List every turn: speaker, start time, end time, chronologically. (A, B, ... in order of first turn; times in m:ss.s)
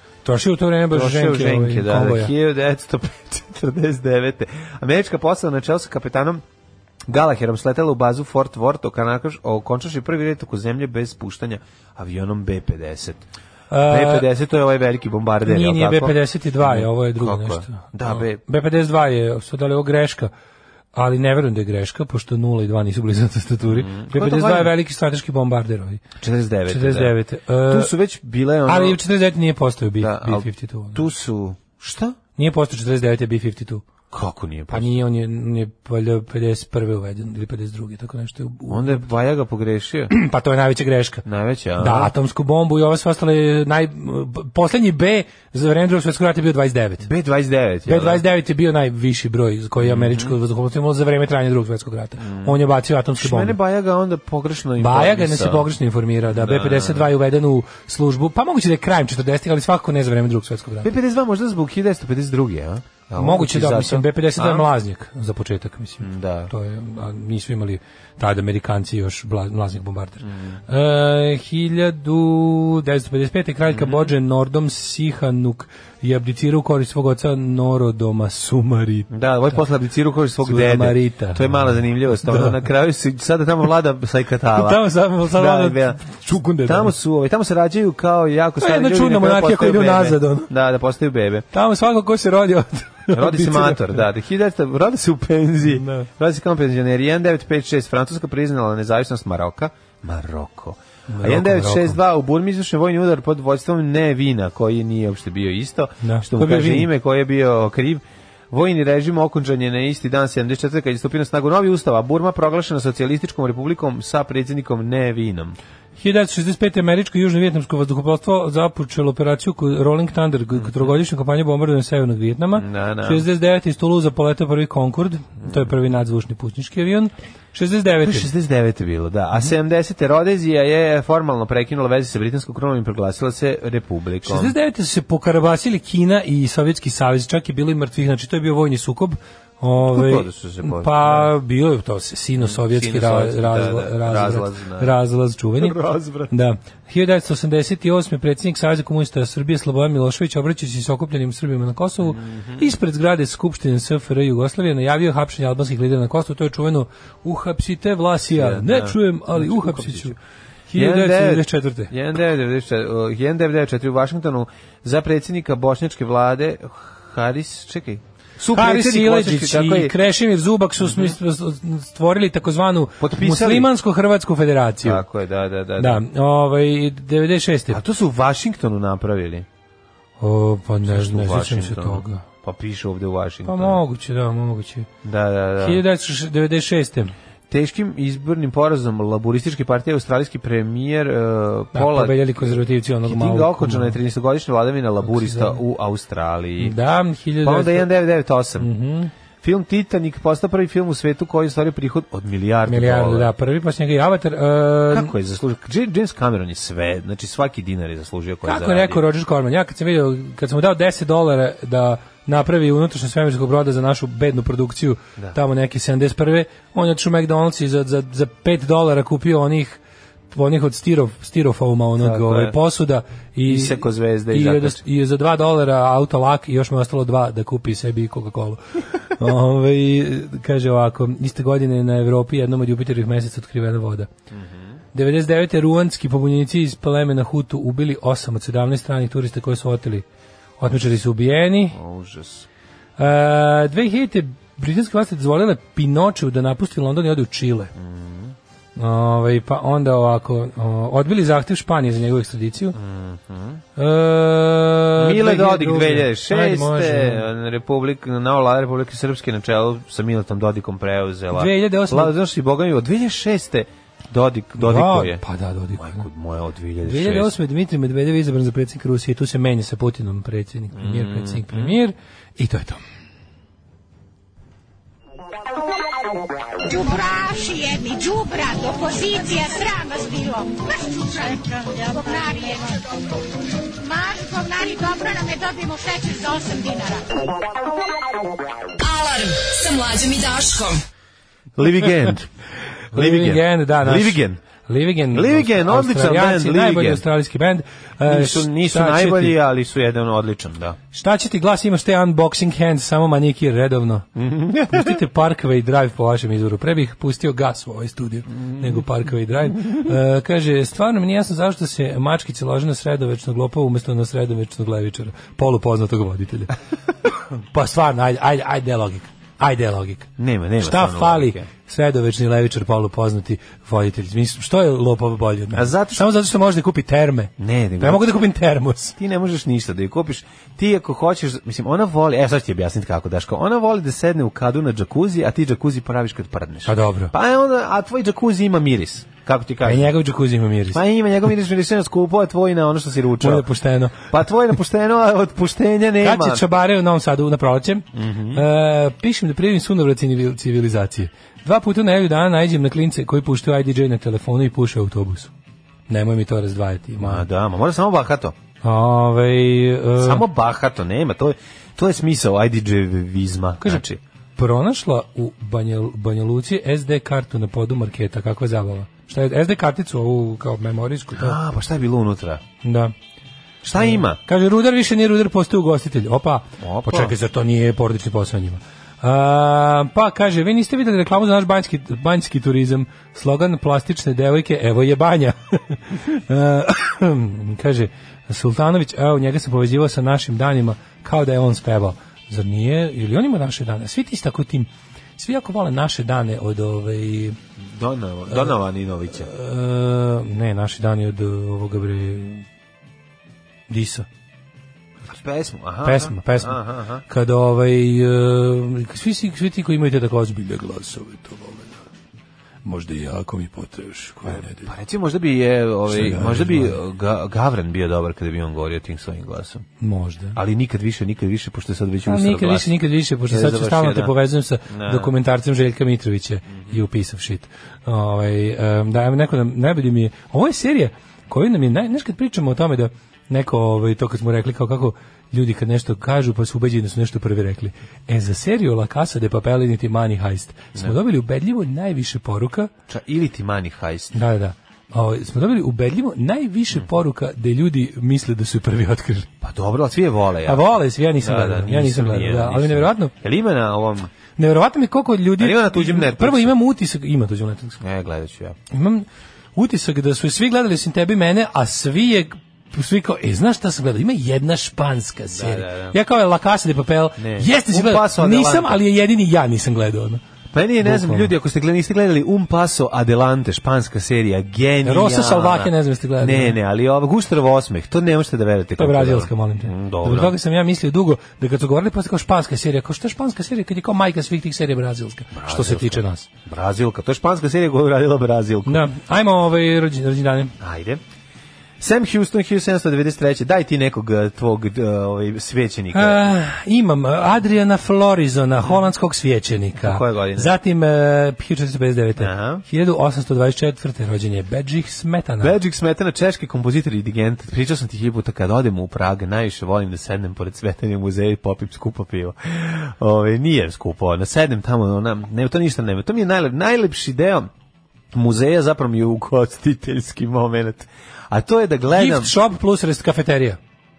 0:00.2-0:02.3 A
0:00.9-0:06.4 B
0:07.1-0:13.2 B
0:13.7-0:14.3 A
0:13.8-0:18.4 B
0:15.4-0:20.3 A
0:20.9-0:26.0 A
0:23.6-0:24.7 B
0:26.2-0:29.0 B
0:26.7-0:27.9 A
0:28.6-0:31.0 A
0:30.0-0:32.2 B
0:32.4-0:33.8 A
0:34.1-0:34.9 B
0:34.7-0:39.0 A
0:38.7-0:40.1 B
0:40.1-0:41.2 A
0:41.2-0:42.1 B
0:41.8-0:47.1 A
0:47.0-0:48.2 B
0:47.8-0:53.6 A
0:49.8-0:50.4 B
0:52.2-0:52.6 B
0:53.2-0:55.7 B
0:54.8-1:00.9 A
0:56.3-0:57.1 B
1:00.8-1:04.7 B
1:03.2-1:19.6 A
1:06.0-1:06.5 B
1:10.2-1:10.6 B
1:13.7-1:14.1 B
1:19.1-1:31.4 B
1:20.4-1:22.6 A
1:24.5-1:26.9 A
1:28.6-1:30.5 A
1:31.5-1:34.0 A
1:33.1-1:55.6 B
1:35.6-1:36.1 A
1:41.1-1:42.0 A
1:46.0-1:46.9 A
1:56.0-2:08.3 A
2:00.6-2:00.9 B
2:02.6-2:03.2 B
2:08.0-2:14.5 B
2:14.2-2:25.8 A
2:19.8-2:21.3 B
2:22.4-2:24.9 B
2:25.6-2:26.3 B
2:26.3-2:40.2 A
2:32.0-2:32.7 B
2:38.3-2:40.2 B
2:40.7-2:41.9 A
2:40.7-2:49.9 B
2:48.5-2:55.0 A
2:50.8-2:51.1 B
2:53.0-2:53.7 B
2:54.8-2:56.0 B
2:55.8-2:57.8 A
2:57.7-2:59.5 B
3:00.2-3:02.2 A
3:00.8-3:03.8 B
3:03.4-3:04.9 A
3:05.0-3:05.8 B
3:05.6-3:07.1 A
3:07.5-3:16.8 B
3:11.7-3:14.0 A
3:15.0-3:15.6 A
3:16.6-3:17.9 A
3:17.4-3:18.7 B
3:18.6-3:19.1 A
3:19.4-3:23.3 B
3:22.6-3:25.1 A
3:24.9-3:29.0 B
3:28.4-3:39.8 A
3:40.3-3:54.1 A
3:42.0-3:42.6 B
3:43.5-3:44.8 B
3:54.3-3:54.7 B
3:54.9-4:00.0 A
4:00.6-4:01.8 A
4:01.7-4:02.4 B
4:03.0-4:07.7 A
4:07.7-4:08.3 B
4:08.8-4:12.8 A
4:12.7-4:13.6 B
4:13.8-4:17.2 A
4:15.0-4:25.2 B
4:21.3-4:22.1 A
4:24.6-4:26.1 A
4:25.7-4:27.3 B
4:26.8-4:32.8 A
4:30.7-4:31.7 B
4:36.6-4:42.9 C
4:43.8-4:47.3 C
4:48.8-4:50.8 D
4:51.6-4:52.3 B
4:52.9-4:54.4 B
4:52.9-4:59.4 A
4:55.1-4:57.0 B
4:58.0-5:00.8 B
5:00.9-5:04.1 A
5:04.2-5:05.0 B
5:04.7-5:16.5 A
5:08.5-5:08.8 B
5:17.5-5:20.1 A
5:20.2-5:21.5 B
5:20.6-5:29.0 A
5:25.6-5:26.0 B
5:27.4-5:28.2 B
5:29.0-5:39.9 B
5:36.6-5:37.1 A
5:39.6-5:40.8 A
5:40.7-5:43.5 B
5:43.2-5:44.0 A
5:44.1-5:46.4 B
5:46.0-5:55.3 A
5:47.9-5:48.4 B
5:55.9-5:57.2 A
5:57.0-5:58.4 B
5:58.6-6:00.2 A
6:00.0-6:04.0 B
6:04.4-6:11.4 A
6:11.2-6:12.4 B
6:12.6-6:12.9 A
6:13.6-6:14.2 B
6:13.8-6:37.4 A
6:16.6-6:17.1 B
6:37.6-6:39.3 B
6:39.1-6:42.4 A
6:43.7-6:44.1 A
6:45.1-6:47.0 B
6:45.8-6:51.8 A
6:52.6-6:54.7 A
6:54.2-6:59.6 B
6:55.9-6:56.8 A
6:59.8-7:00.4 A
7:00.3-7:02.7 B
7:02.0-7:22.7 A
7:03.3-7:04.1 B
7:04.7-7:05.1 B
7:06.5-7:06.8 B
7:22.9-7:24.1 B
7:24.1-7:29.3 A
7:29.4-7:34.1 B
7:30.4-7:33.1 A
7:34.4-7:37.8 A
7:35.4-7:36.5 B
7:37.8-7:38.6 B
7:38.7-7:50.2 A
7:45.3-7:46.0 B
7:47.2-7:48.8 B
7:50.5-8:00.3 B
7:50.8-7:51.3 A
7:54.8-7:56.6 A
7:58.8-8:06.2 A
8:05.3-8:08.8 B
8:08.6-8:10.5 A
8:10.6-8:11.0 B
8:11.8-8:16.2 B
8:15.9-8:25.5 A
8:19.8-8:20.5 B
8:22.2-8:22.6 B
8:25.4-8:37.5 B
8:38.1-8:42.3 B
8:41.9-8:43.6 A